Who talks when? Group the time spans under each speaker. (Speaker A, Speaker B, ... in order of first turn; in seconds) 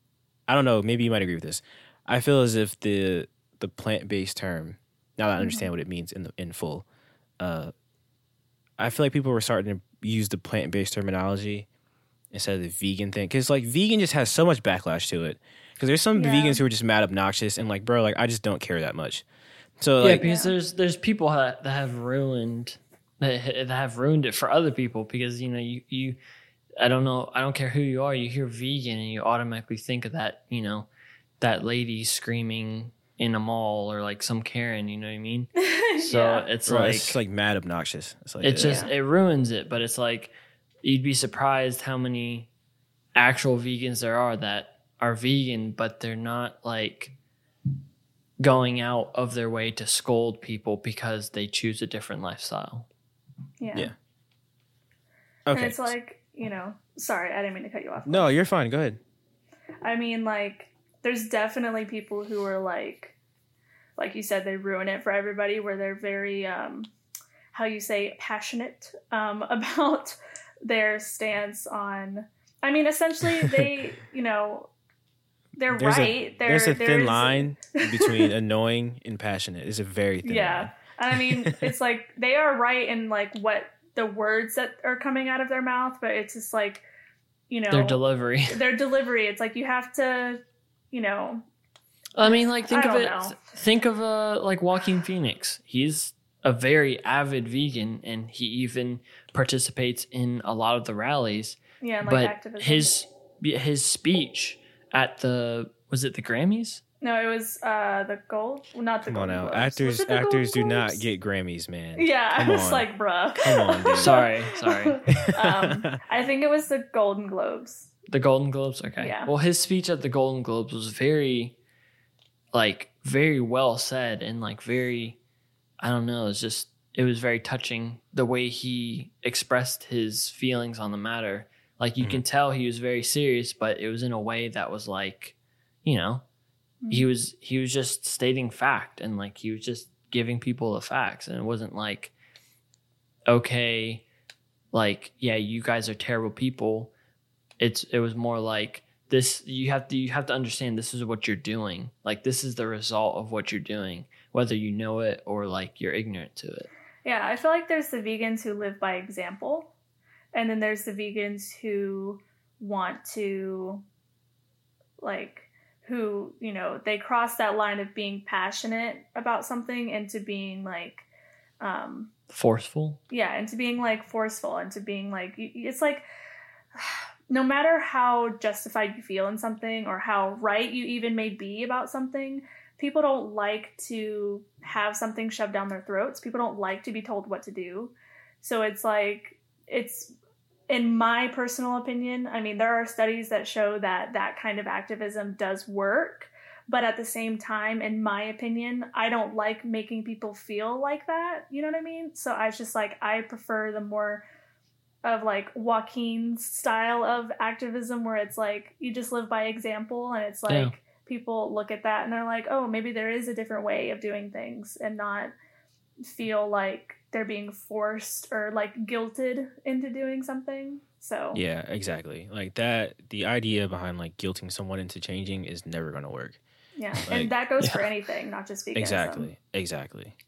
Speaker A: 0.5-6.9, 7.4-7.7, 8.8-11.7, 12.3-19.2, 19.8-20.2, 36.7-38.9, 55.5-55.9, 58.1-59.0, 75.7-81.7, 109.1-112.9, 113.4-114.2, 115.2-116.0, 221.3-226.4, 228.8-230.2
Speaker B: 5.4-5.7, 16.1-16.6, 20.2-20.5, 35.6-36.5, 38.6-38.9, 53.6-53.9, 55.5-58.3, 59.8-63.2, 64.0-66.9, 67.5-74.7, 75.6-78.3, 80.2-86.8, 87.5-90.4, 90.9-91.4, 92.2-93.4, 101.8-102.9, 107.0-111.0, 112.0-117.9, 119.0-119.3, 136.8-137.1, 157.1-159.7, 160.3-163.8, 165.0-171.1, 171.6-172.1, 173.1-176.0, 176.8-190.2, 190.7-204.2, 205.0-215.3, 216.0-221.4, 226.8-229.3
Speaker C: 20.0-26.2, 26.8-30.9, 31.4-37.2, 38.4-42.5, 43.1-47.1, 48.4-52.9, 87.7-88.6, 92.2-106.8, 114.0-115.0, 118.1-121.6, 122.5-125.2, 125.8-136.2, 136.9-142.1, 143.3-144.1, 144.7-146.9, 147.6-156.7, 172.3-173.0